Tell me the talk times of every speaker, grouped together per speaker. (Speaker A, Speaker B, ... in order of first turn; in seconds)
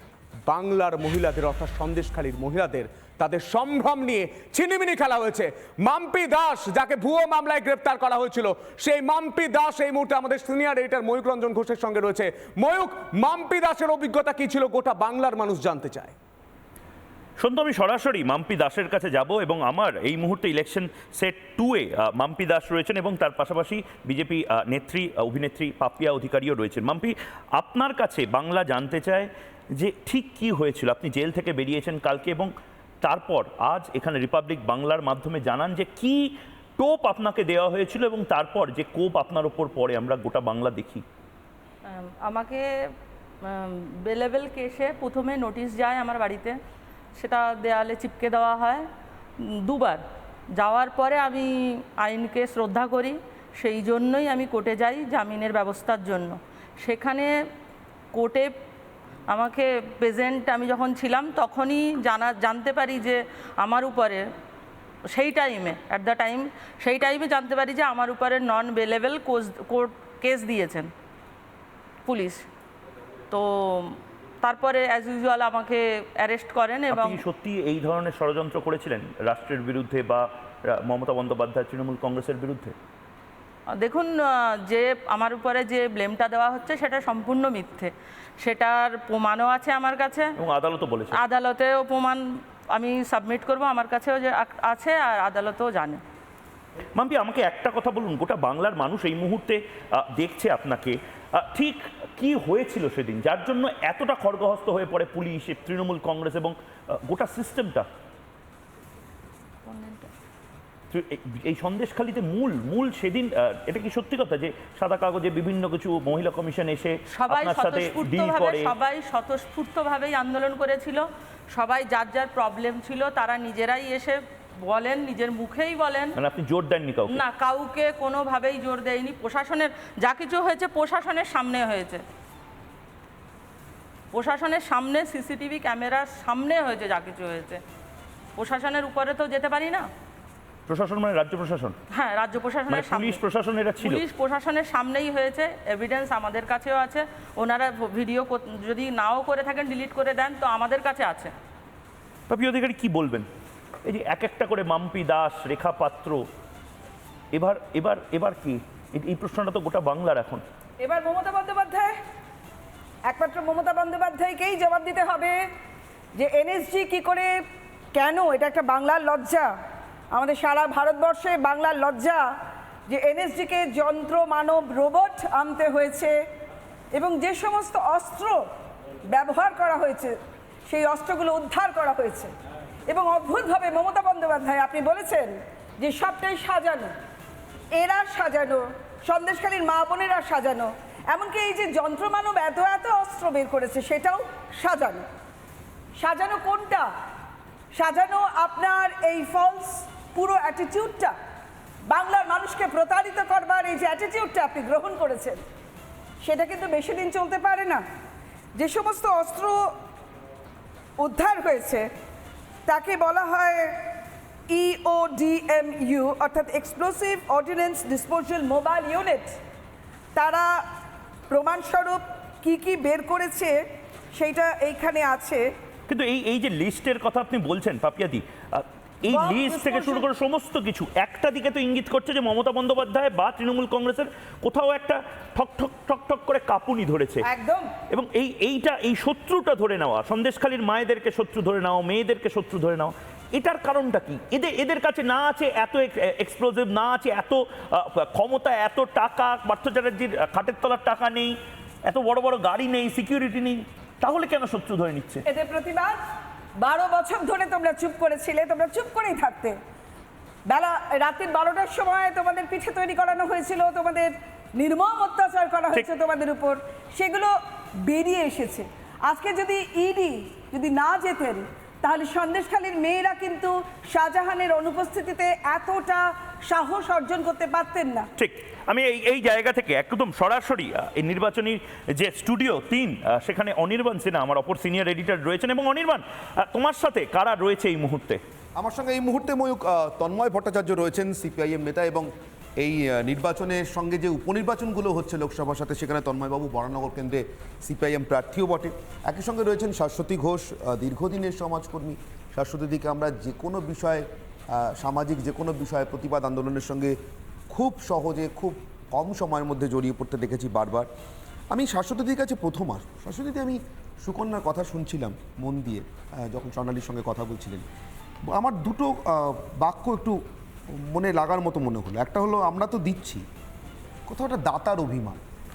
Speaker A: 0.5-16.1
Speaker B: 17.4-32.5, 33.0-41.0, 76.9-82.7, 90.4-91.2, 97.0-99.6, 100.2-106.5, 107.1-107.8, 110.9-118.7, 126.2-127.2, 140.7-141.7, 142.7-144.0, 152.3-153.2, 153.8-156.2, 157.3-160.4, 225.9-237.2, 237.9-251.3, 251.8-255.2, 278.2-288.2
Speaker C: 41.9-42.6, 43.4-46.5, 47.2-48.8, 49.4-50.0, 50.6-57.3, 58.1-58.5, 59.3-64.2, 65.1-70.9, 72.0-72.5, 73.3-77.2, 83.7-90.3, 91.1-92.2, 92.7-96.0, 109.7-110.1, 117.1-121.0, 121.5-126.2, 127.1-132.0, 134.1-137.6, 138.4-139.8, 141.9-143.2, 143.8-151.3
Speaker D: 160.8-161.9, 163.1-165.4, 166.1-167.3, 167.9-169.5, 170.1-172.2, 172.9-176.2, 176.9-178.4, 179.1-180.2, 180.7-182.3, 182.9-186.9, 187.7-195.0, 196.0-196.9, 197.7-201.1, 201.9-205.4, 206.2-207.8, 208.5-209.6, 211.0-211.8, 212.7-213.7, 214.5-219.3, 220.1-220.5, 221.3-223.6, 224.1-225.4, 229.1-230.1, 237.2-237.7, 255.3-256.0, 256.6-259.6, 260.5-267.3, 267.8-278.1
Speaker E: 288.6-292.1, 292.6-306.9, 307.5-310.9, 311.5-317.6, 318.3-320.2, 320.9-323.2, 324.1-325.2